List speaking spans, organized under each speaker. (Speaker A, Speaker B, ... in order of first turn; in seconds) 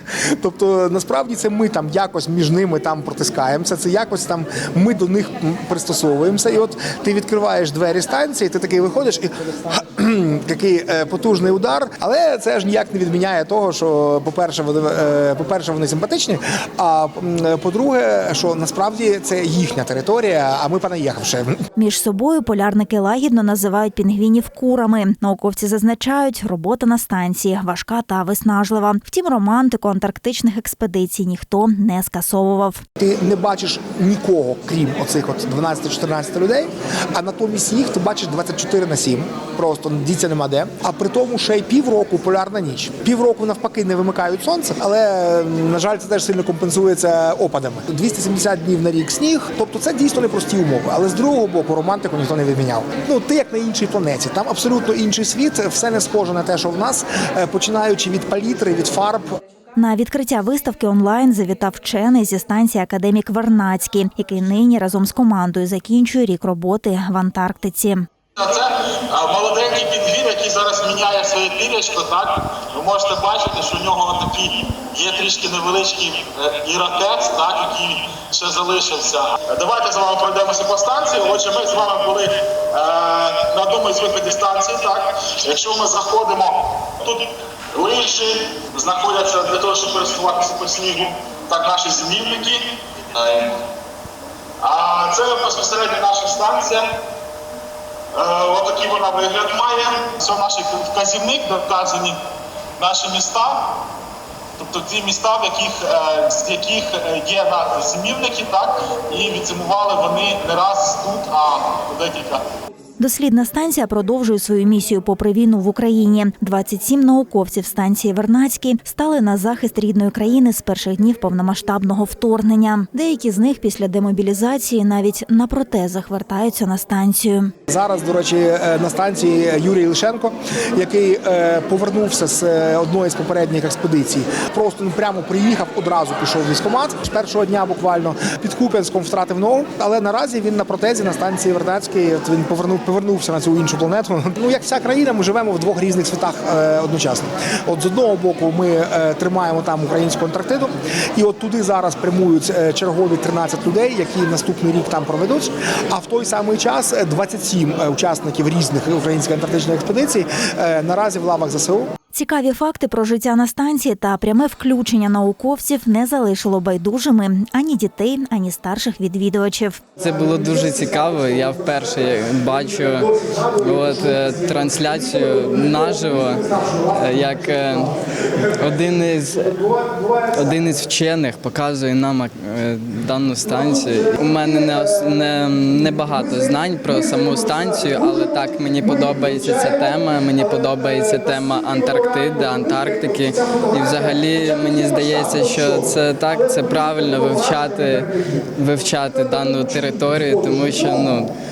Speaker A: 0.3-21.6, 33.0-59.4, 127.7-161.9, 170.2-171.8, 172.6-177.8, 179.6-180.6, 183.7-184.9, 185.8-198.1, 198.9-201.2
Speaker B: 21.8-32.8, 59.8-68.1, 113.0-127.5, 162.1-169.8
Speaker C: 68.4-93.5, 94.6-96.9, 98.1-102.2, 102.8-103.8, 104.6-112.4
Speaker D: 170.0-177.9, 178.6-179.5, 180.3-201.3